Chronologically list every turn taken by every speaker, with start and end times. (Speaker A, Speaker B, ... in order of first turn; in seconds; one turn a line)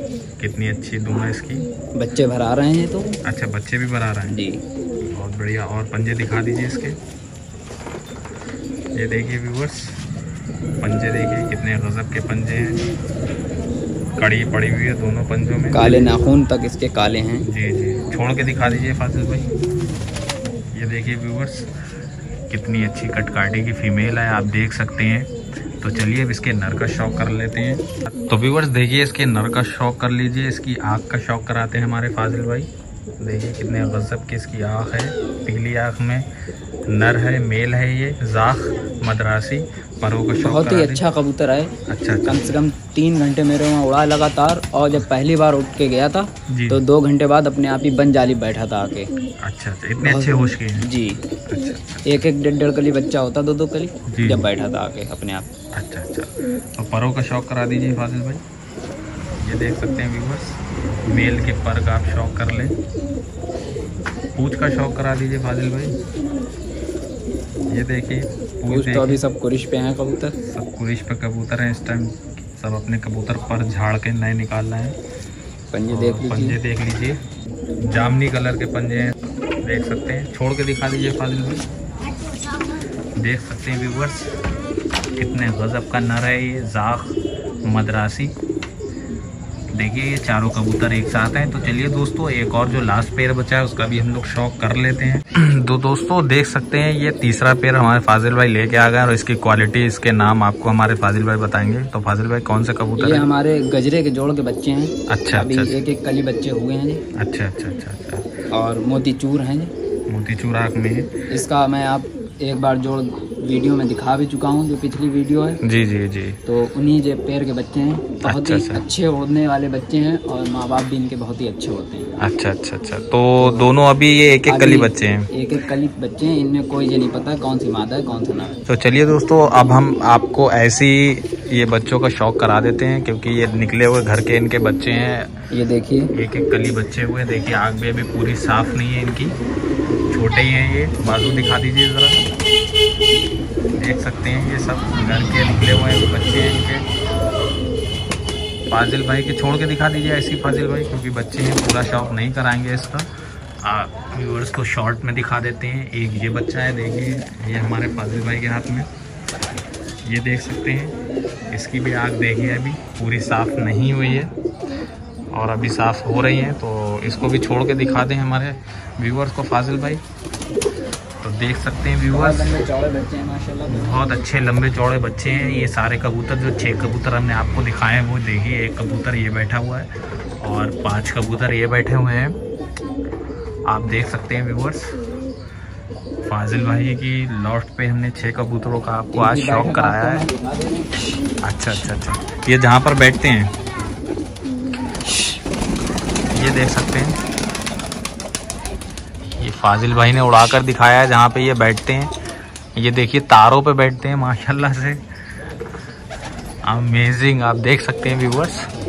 Speaker A: 0.4-1.6
Speaker B: 1.9-3.2
Speaker A: 3.2-4.4
Speaker B: 4.3-4.6
Speaker A: 5.1-7.0
Speaker A: 8.9-10.0
Speaker A: 10.8-12.8
Speaker A: 14.2-16.1
Speaker B: 15.7-17.5
Speaker A: 17.4-19.5
Speaker A: 20.7-21.7
Speaker A: 22.5-32.7
Speaker A: 33.2-36.3
Speaker A: 36.9-41.0
Speaker B: 40.4-41.7
Speaker A: 41.9-42.6
Speaker B: 42.2-49.1
Speaker A: 46.5-46.8
Speaker A: 49.4-50.8
Speaker B: 50.0-51.2
Speaker A: 51.5-52.2
Speaker B: 52.0-55.5
Speaker A: 54.1-54.5
Speaker A: 55.7-58.4
Speaker A: 59.4-62.8
Speaker A: 64.3-66.0
Speaker A: 67.7-69.2
Speaker B: 68.7-70.4
Speaker A: 70.4-75.0
Speaker B: 75.7-76.6
Speaker A: 75.9-77.2
Speaker A: 77.8-81.6
Speaker A: 83.2-84.4
Speaker A: 85.1-88.3
Speaker A: 89.7-103.3
Speaker B: 103.0-107.0
Speaker A: 105.1-105.8
Speaker A: 107.2-108.3
Speaker B: 108.5-109.7
Speaker A: 110.1-111.1
Speaker B: 111.3-115.6
Speaker A: 115.6-116.4
Speaker B: 116.5-122.1
Speaker A: 118.2-118.8
Speaker A: 122.2-125.3
Speaker B: 123.4-123.7
Speaker B: 124.5-128.6
Speaker A: 128.7-135.3
Speaker B: 135.5-136.1
Speaker A: 136.1-139.4
Speaker A: 140.1-142.2
Speaker A: 143.7-146.8
Speaker A: 148.7-153.1
Speaker A: 153.6-158.9
Speaker A: 160.0-161.0
Speaker A: 161.5-164.3
Speaker A: 165.3-170.0
Speaker A: 171.2-172.5
Speaker B: 172.1-174.0
Speaker A: 173.7-179.9
Speaker A: 180.4-182.3
Speaker A: 183.7-184.9
Speaker A: 186.2-190.2
Speaker B: 189.1-191.9
Speaker A: 191.4-193.5
Speaker B: 195.1-195.4
Speaker A: 196.3-197.2
Speaker A: 199.4-202.1
Speaker A: 202.8-205.0
Speaker A: 206.7-208.7